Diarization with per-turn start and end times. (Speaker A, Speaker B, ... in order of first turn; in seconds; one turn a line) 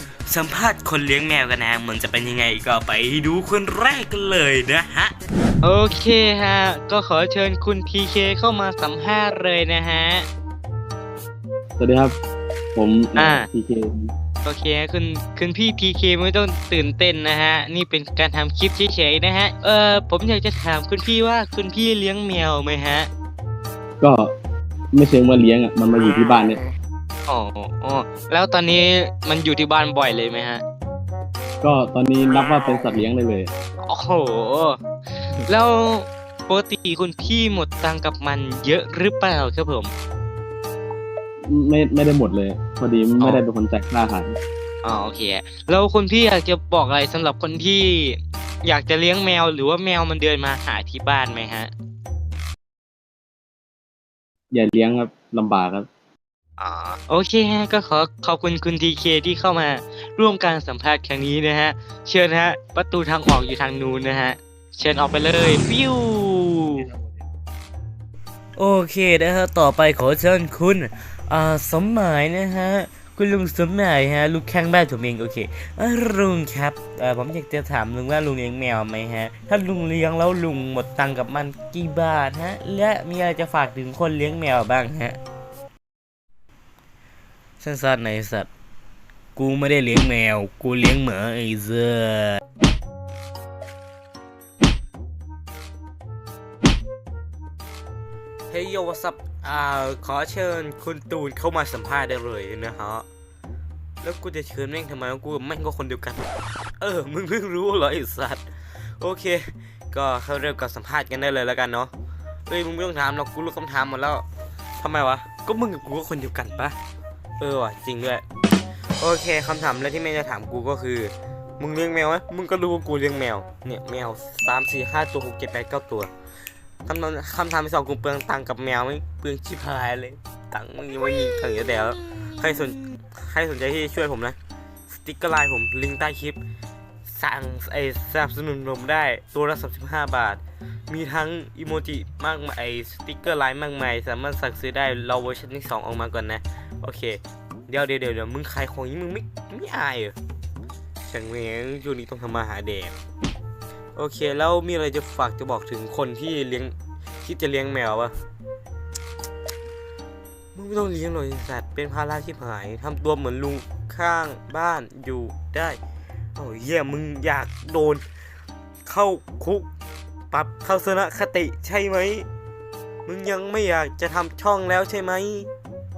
Speaker A: 0.2-5.1
Speaker B: 5.6-10.2
Speaker C: 11.8-12.2
Speaker C: 12.7-14.1
Speaker B: 13.2-13.5
Speaker B: 14.4-23.1
Speaker C: 24.0-24.3
Speaker C: 24.9-26.6
Speaker B: 27.3-30.6
Speaker C: 31.6-33.5
Speaker B: 33.8-39.9
Speaker C: 41.5-44.4
Speaker B: 44.8-51.7
Speaker C: 54.5-55.9
Speaker B: 56.6-66.9
Speaker A: 68.6-85.2
Speaker A: 87.6-88.5
Speaker A: 89.3-92.4
Speaker A: 98.5-103.0
Speaker A: 104.0-106.3
Speaker A: 106.8-108.4
Speaker A: 109.0-111.9
Speaker A: 112.5-114.2
Speaker A: 114.8-116.7
Speaker A: 117.4-118.2
Speaker A: 119.0-126.1
Speaker A: 126.8-134.4
Speaker A: 134.9-136.4
Speaker A: 137.0-150.1
Speaker A: 151.0-152.9
Speaker A: 153.9-158.1
Speaker A: 160.5-165.8
Speaker A: 166.3-168.0
Speaker A: 168.8-169.7
Speaker A: 170.3-172.3
Speaker A: 173.1-175.5